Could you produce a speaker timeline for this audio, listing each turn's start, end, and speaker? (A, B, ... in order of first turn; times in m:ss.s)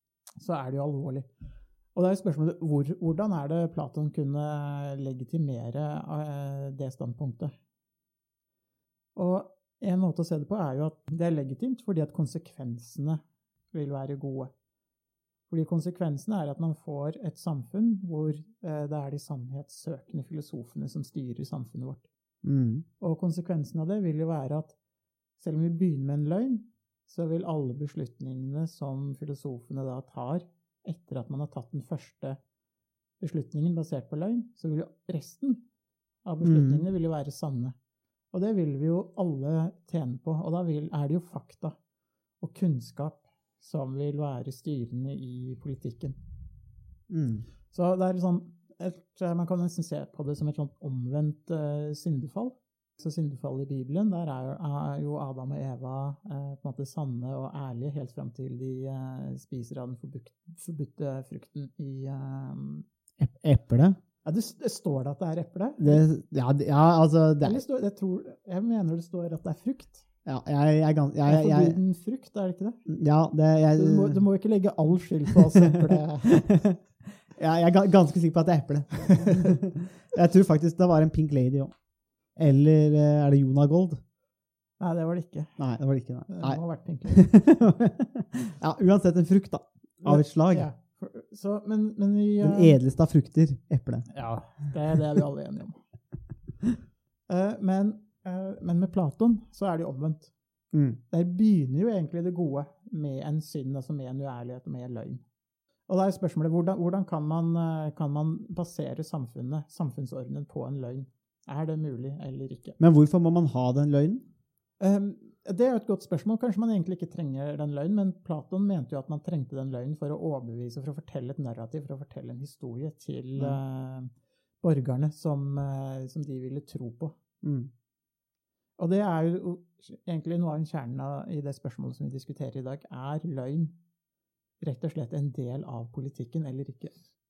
0:00.4-0:01.2 A
0:01.9-0:07.5 A
0:09.2-0:14.5 A
0:15.5-0:22.1 A
0:22.4-0:22.8 B
0:23.0-0:24.7 A
0:25.4-0:32.4 A
0:33.2-0:35.6 A
0:36.2-0:37.7 A
0:36.4-0:36.9 B
0:38.3-0:41.7 A
0:42.4-0:46.2 A
0:47.1-0:47.4 B
0:47.7-1:02.8 A
1:03.2-1:04.0 B
1:04.2-1:06.0 A
1:05.8-1:07.6 B
1:07.4-1:10.0 A
1:10.2-1:11.8 B
1:11.2-1:12.9 A
1:12.9-1:14.2 B
1:13.7-1:16.5 A
1:15.6-1:16.8 B
1:17.3-1:21.7 B
1:19.2-1:19.5 A
1:22.4-1:24.0 B
1:24.8-1:25.6 A
1:25.6-1:30.7 B
1:26.3-1:27.3 A
1:30.0-1:32.8 A
1:32.4-1:34.1 B
1:34.1-1:35.8 A
1:37.3-1:40.3 A
1:40.7-1:41.0 B
1:41.1-1:45.2 A
1:45.9-1:52.8 A
1:52.8-1:54.2 B
1:54.8-2:04.1 A
2:04.6-2:07.1 A
2:07.4-2:07.7 B
2:08.8-2:13.7 A
2:14.6-2:17.0 A